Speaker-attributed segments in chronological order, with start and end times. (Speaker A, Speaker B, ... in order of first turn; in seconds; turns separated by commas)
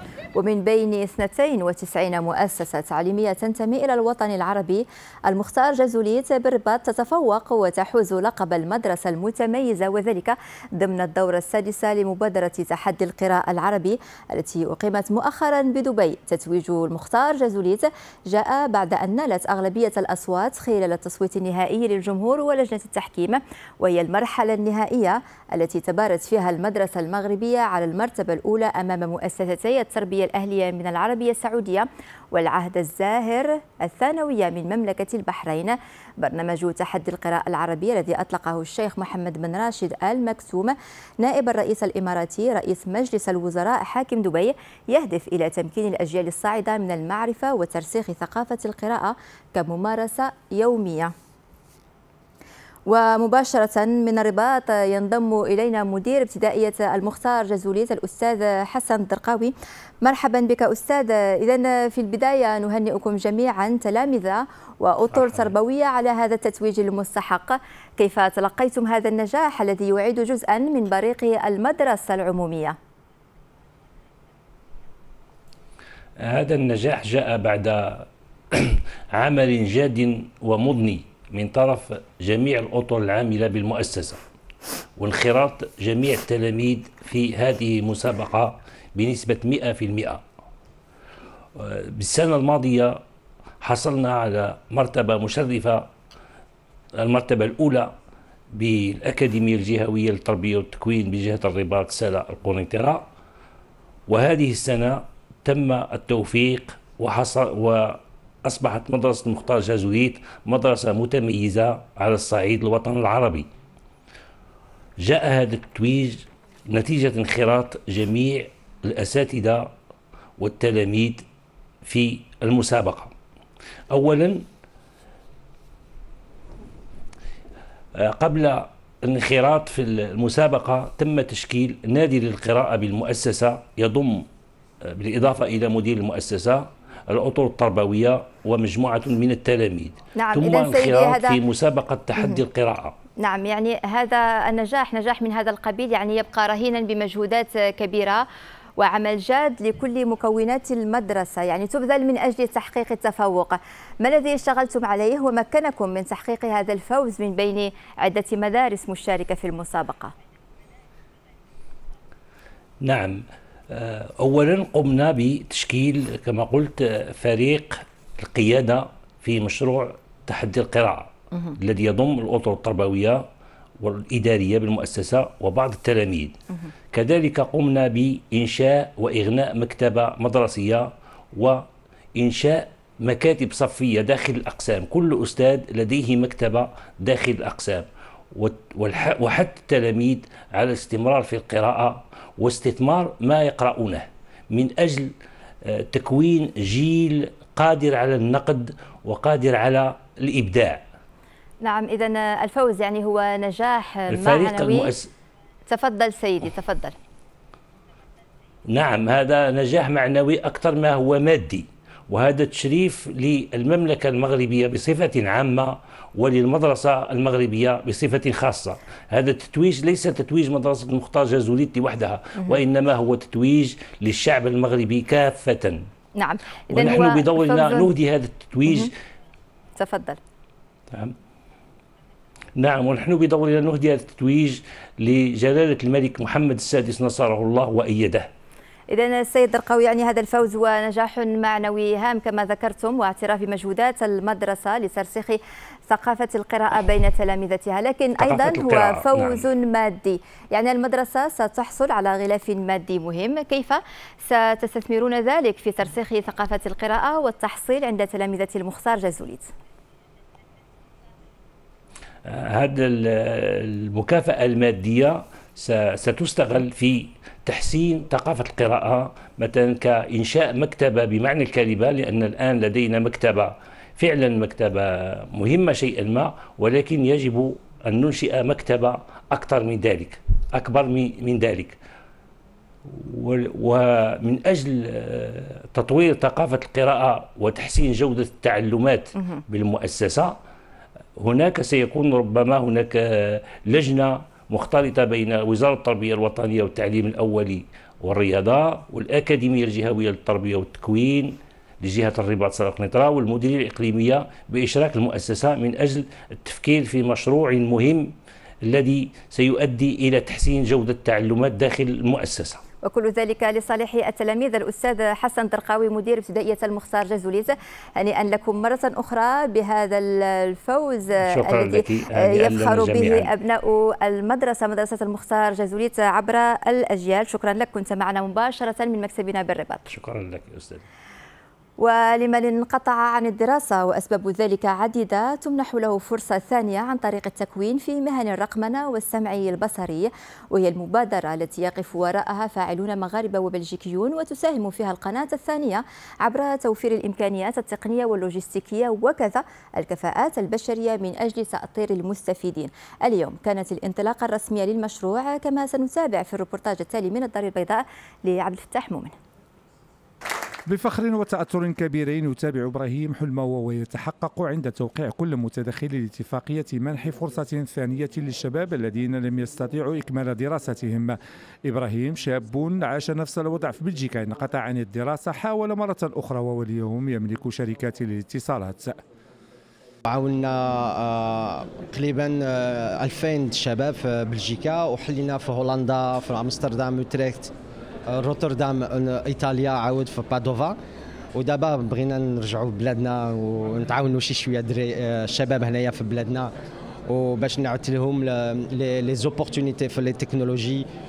Speaker A: 0.4-51.1, Speaker A: 52.9-59.5, Speaker A: 60.0-72.8, Speaker B: 76.2-84.2, Speaker B: 85.0-90.2, Speaker B: 91.6-93.0, Speaker B: 93.6-95.9, Speaker B: 97.0-97.9, Speaker B: 98.5-103.0, Speaker B: 104.1-113.5, Speaker B: 115.0-119.7, Speaker B: 120.4-121.2, Speaker B: 121.9-123.1, Speaker B: 123.9-124.4, Speaker B: 128.0-134.3, Speaker B: 134.9-142.9, Speaker A: 140.2-141.4, Speaker A: 142.2-142.4, Speaker A: 143.2-148.2, Speaker A: 148.8-160.1, Speaker B: 162.8-173.2, Speaker B: 173.8-176.4, Speaker B: 176.9-181.6, Speaker B: 182.2-195.1, Speaker B: 195.7-200.8, Speaker A: 201.6-204.9, Speaker B: 204.1-205.1, Speaker A: 205.7-206.9, Speaker B: 208.7-225.8, Speaker A: 226.2-227.9, Speaker B: 226.7-228.9, Speaker A: 229.8-230.2, Speaker B: 232.6-238.3, Speaker A: 238.9-259.5, Speaker B: 248.2-249.4, Speaker B: 262.3-281.8, Speaker B: 282.9-290.4, Speaker B: 291.2-308.1, Speaker B: 308.7-312.6, Speaker A: 312.9-329.8, Speaker B: 321.2-323.3, Speaker B: 329.9-330.8, Speaker A: 331.8-359.1, Speaker C: 360.7-379.0, Speaker D: 380.1-387.5, Speaker D: 388.1-390.8, Speaker D: 391.4-396.5, Speaker D: 397.1-400.8